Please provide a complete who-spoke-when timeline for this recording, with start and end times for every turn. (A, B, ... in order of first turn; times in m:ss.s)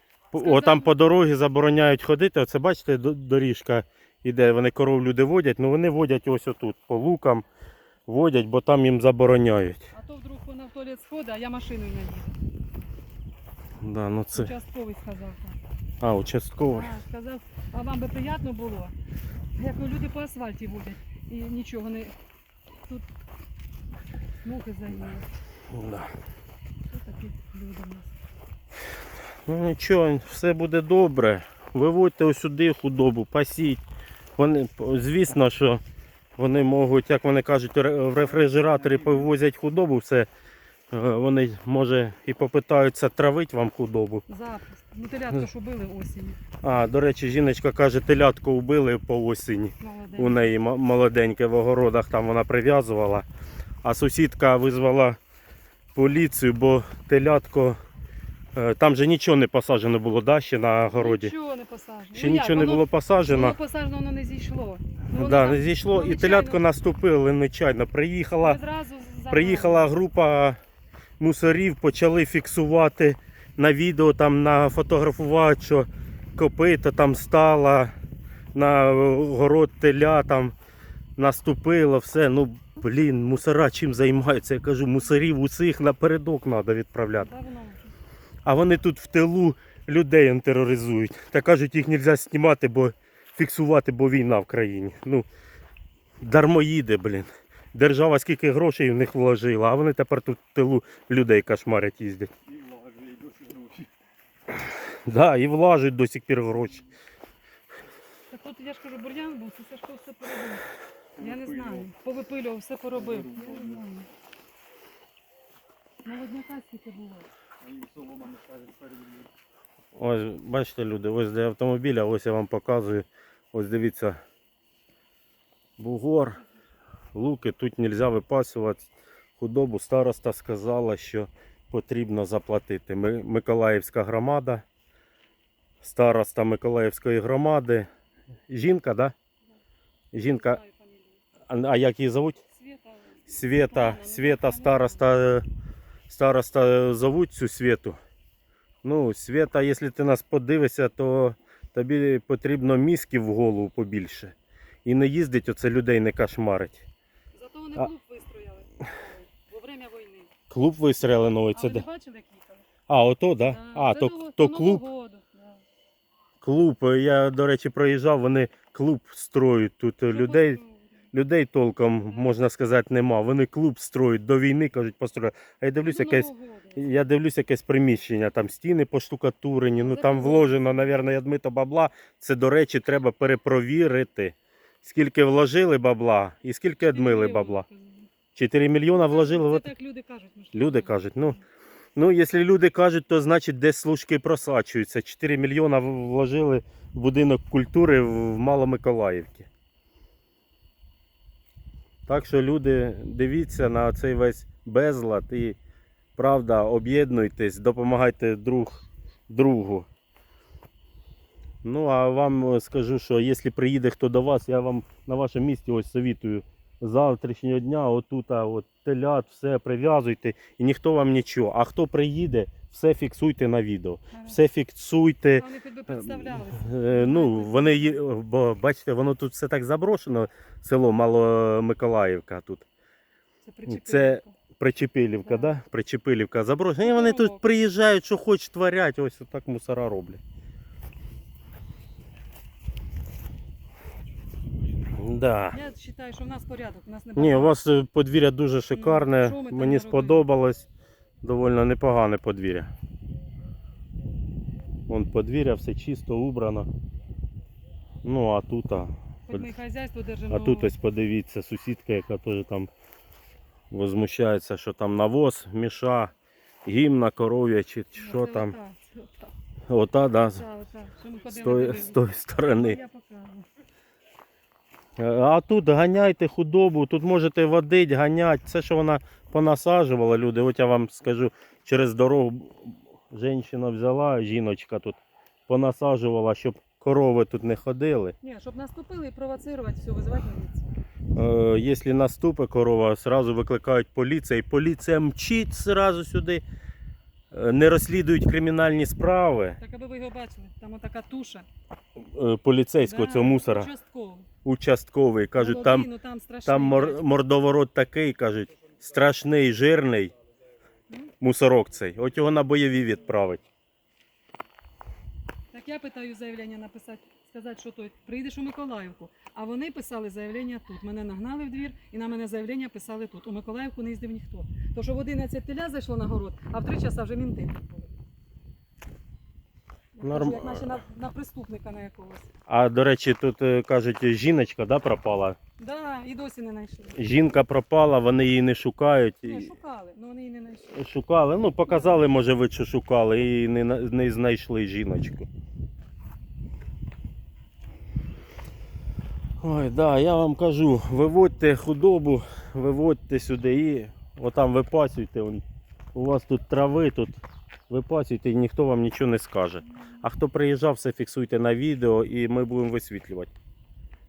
0:00.3-0:07.4 A
0:00.4-0:01.0 B
0:08.1-0:09.9 A
0:09.9-0:12.4 B
0:13.8-0:14.5 A
0:14.3-0:15.6 B
0:16.0-0:17.0 A
0:16.7-0:19.0 B
0:19.6-0:22.1 B
0:24.4-0:25.3 B
0:25.7-0:26.1 A
0:26.9-0:28.2 B
0:29.5-0:33.8 A
0:34.4-0:35.8 A
0:36.4-0:40.3 A
0:38.4-0:39.3 C
0:40.9-0:44.2 A
0:44.3-0:46.4 B
0:46.6-0:53.3 A
0:49.8-0:50.5 B
0:53.8-0:55.2 A
0:56.0-0:57.8 A
0:58.5-1:01.3 A
1:00.9-1:06.6 B
1:02.1-1:03.6 A
1:05.1-1:08.6 A
1:08.4-1:09.9 B
1:09.3-1:10.6 A
1:11.2-1:17.9 A
1:18.5-1:20.6 A
1:21.2-1:27.3 A
1:27.1-1:28.0 B
1:28.4-1:35.3 A
1:36.2-1:42.3 A
1:42.5-1:43.9 C
1:45.1-1:46.8 A
1:48.3-1:50.7 B
1:51.2-1:51.9 C
1:51.2-1:54.1 B
1:52.9-1:53.9 C
1:56.0-1:57.3 B
1:57.6-1:59.3 C
2:00.0-2:04.2 A
2:05.8-2:06.4 A
2:07.1-2:14.6 A
2:15.8-2:17.9 A
2:18.5-2:19.1 A
2:20.1-2:20.6 A
2:20.2-2:21.2 B
2:21.5-2:22.4 A
2:22.5-2:25.1 B
2:23.3-2:25.4 A
2:26.1-2:28.0 A
2:28.8-2:36.9 A
2:37.3-2:40.3 B
2:40.5-2:41.8 A
2:41.5-2:42.7 B
2:42.9-2:44.8 A
2:43.5-2:45.6 B
2:46.4-2:50.6 A
2:50.1-2:51.1 B
2:51.1-3:07.6 A
2:55.8-2:57.1 B
2:59.8-3:00.9 B
3:06.8-3:08.1 B
3:08.3-3:09.7 A
3:09.0-3:11.4 B
3:10.5-3:11.4 A
3:12.0-3:19.5 A
3:22.1-3:25.6 A
3:26.2-3:29.9 A
3:31.6-3:52.7 A
3:44.1-3:44.4 B
3:45.4-3:48.0 B
3:53.4-3:54.4 B
3:53.7-4:00.2 A
3:55.2-3:55.5 B
3:56.8-3:57.4 B
4:05.0-4:05.6 A
4:05.5-4:07.5 B
4:07.2-4:10.7 A
4:08.7-4:10.2 B
4:11.2-4:12.7 A
4:14.9-4:16.7 A
4:18.0-4:19.5 A
4:19.3-4:20.7 B
4:20.3-4:22.7 A
4:23.7-4:26.1 A
4:26.6-4:28.5 A
4:28.0-4:29.3 B
4:29.7-4:30.4 A
4:30.3-4:33.5 B
4:31.3-4:32.8 A
4:35.0-4:48.2 A
4:48.2-4:50.8 B
4:51.1-4:56.4 A
4:57.3-4:59.6 A
4:59.6-5:01.5 B
5:02.0-5:03.7 A
5:02.8-5:04.3 B
5:04.4-5:05.9 A
5:05.4-5:07.2 B
5:06.4-5:10.1 A
5:11.2-5:13.5 A
5:15.5-5:28.0 B
5:30.0-5:32.3 B
5:30.0-5:30.8 A
5:32.5-5:35.4 A
5:35.6-5:37.1 B
5:37.0-5:39.5 A
5:39.2-5:40.8 B
5:40.7-5:45.3 A
5:41.7-5:42.1 B
5:49.4-6:03.3 A